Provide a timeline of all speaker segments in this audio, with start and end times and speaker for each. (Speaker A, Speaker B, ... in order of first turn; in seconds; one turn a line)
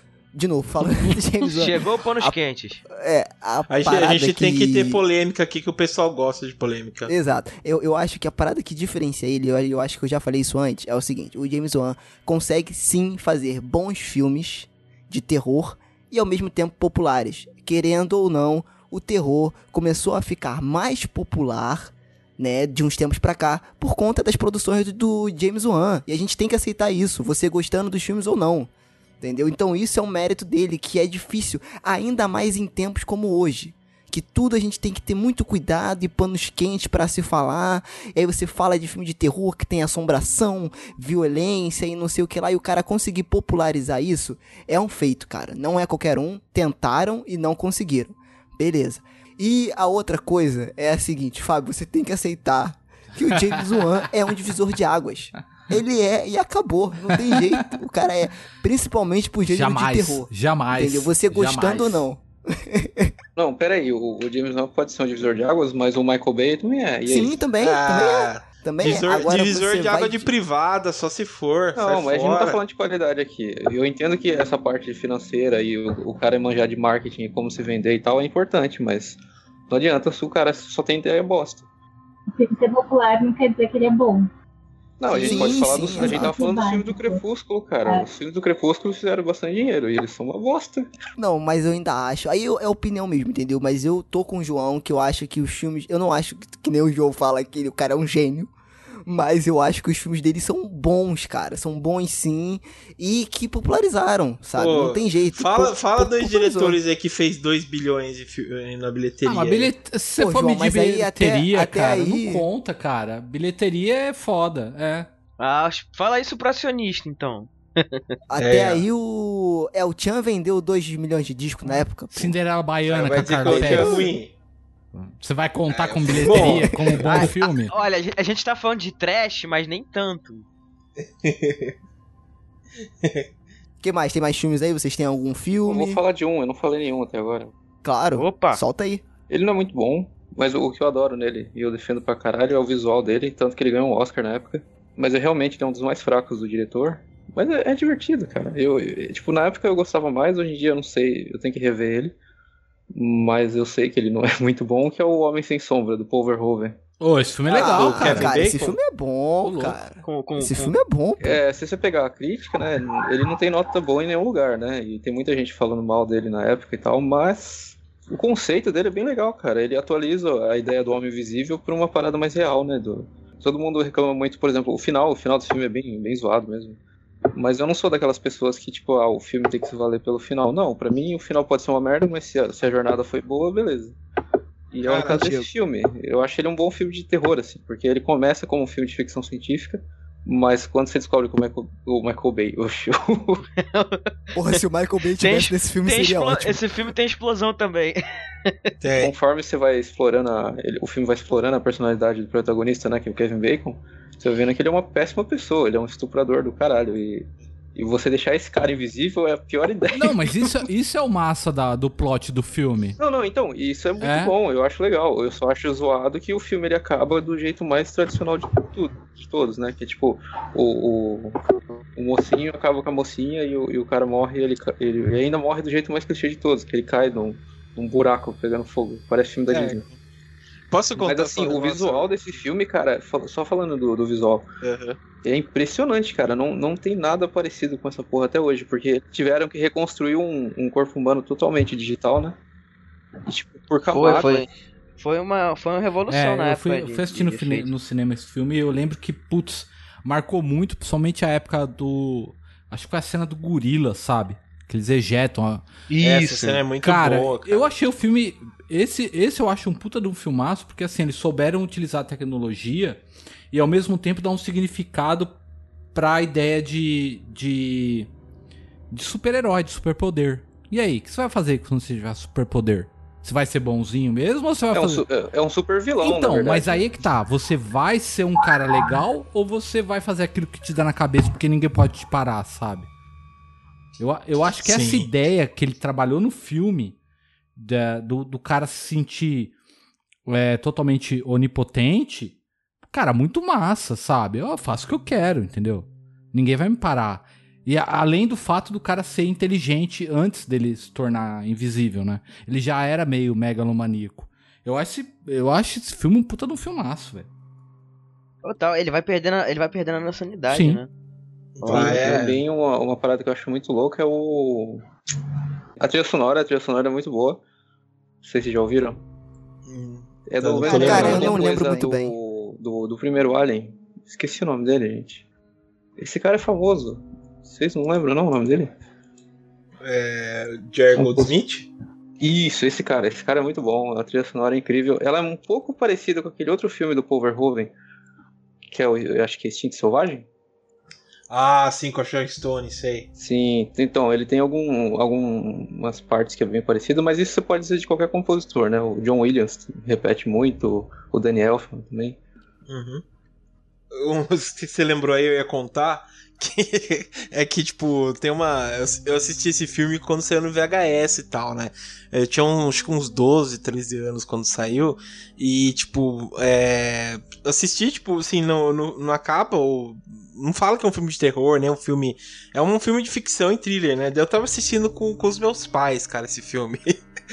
Speaker A: 0.3-2.4
Speaker B: 1.4-2.8
Speaker A: 2.9-5.0
Speaker C: 3.7-7.1
Speaker A: 7.1-28.7
Speaker A: 29.2-63.1
Speaker D: 59.5-62.0
Speaker E: 63.4-67.4
Speaker A: 67.0-70.3
Speaker C: 67.6-72.6
Speaker E: 71.8-79.2
Speaker E: 79.7-81.7
Speaker F: 82.3-84.3
Speaker E: 85.0-90.9
Speaker A: 85.1-86.3
Speaker F: 85.1-87.2
Speaker A: 91.2-98.5
Speaker A: 99.0-106.8
Speaker C: 104.5-109.7
Speaker D: 109.2-115.1
Speaker A: 110.2-112.4
Speaker B: 115.4-118.0
Speaker A: 118.3-122.3
Speaker C: 118.4-118.8
Speaker D: 122.1-124.0
Speaker C: 122.9-124.3
Speaker A: 123.5-124.1
Speaker D: 124.9-127.7
Speaker C: 125.7-126.7
Speaker B: 127.0-130.4
Speaker C: 131.2-131.7
Speaker A: 133.8-136.0
Speaker E: 135.7-137.5
Speaker A: 137.8-139.0
Speaker B: 138.2-138.6
Speaker E: 139.3-152.2
Speaker E: 152.9-156.8
Speaker D: 157.0-158.3
Speaker A: 157.5-161.4
Speaker C: 157.5-158.8
Speaker D: 159.4-159.8
Speaker B: 160.0-160.7
Speaker E: 161.2-176.8
Speaker E: 177.3-184.0
Speaker E: 184.7-193.4
Speaker C: 184.9-185.3
Speaker A: 185.1-185.5
Speaker B: 193.6-194.1
Speaker A: 194.3-196.6
Speaker B: 195.2-198.7
Speaker C: 198.8-199.1
Speaker E: 199.0-210.6
Speaker D: 209.9-213.0
Speaker E: 213.0-229.8
Speaker D: 214.0-214.3
Speaker C: 229.5-229.9
Speaker C: 230.7-232.1
Speaker E: 231.0-234.5
Speaker C: 234.6-235.0
Speaker E: 235.2-242.4
Speaker E: 243.2-244.5
Speaker B: 243.9-244.5
Speaker B: 245.0-247.7
Speaker D: 246.1-255.7
Speaker B: 255.9-256.6
Speaker C: 256.0-257.7
Speaker D: 256.8-265.4
Speaker D: 265.9-268.1
Speaker D: 268.9-275.0
Speaker E: 274.7-276.9
Speaker D: 276.0-282.9
Speaker D: 284.0-287.0
Speaker C: 284.6-285.1
Speaker D: 287.6-289.5
Speaker D: 290.3-292.4
Speaker D: 292.9-307.3
Speaker B: 308.4-310.9
Speaker D: 310.5-310.8
Speaker C: 311.6-312.4
Speaker E: 311.6-314.9
Speaker E: 315.8-317.4
Speaker E: 318.2-319.0
Speaker C: 319.6-321.5
Speaker E: 320.3-325.2
Speaker A: 320.6-322.1
Speaker E: 326.0-328.7
Speaker C: 329.8-331.7
Speaker E: 330.9-331.3
Speaker E: 332.2-337.7
Speaker E: 338.7-340.3
Speaker C: 341.3-343.1
Speaker E: 343.2-352.2
Speaker C: 352.7-353.0
Speaker C: 353.9-377.0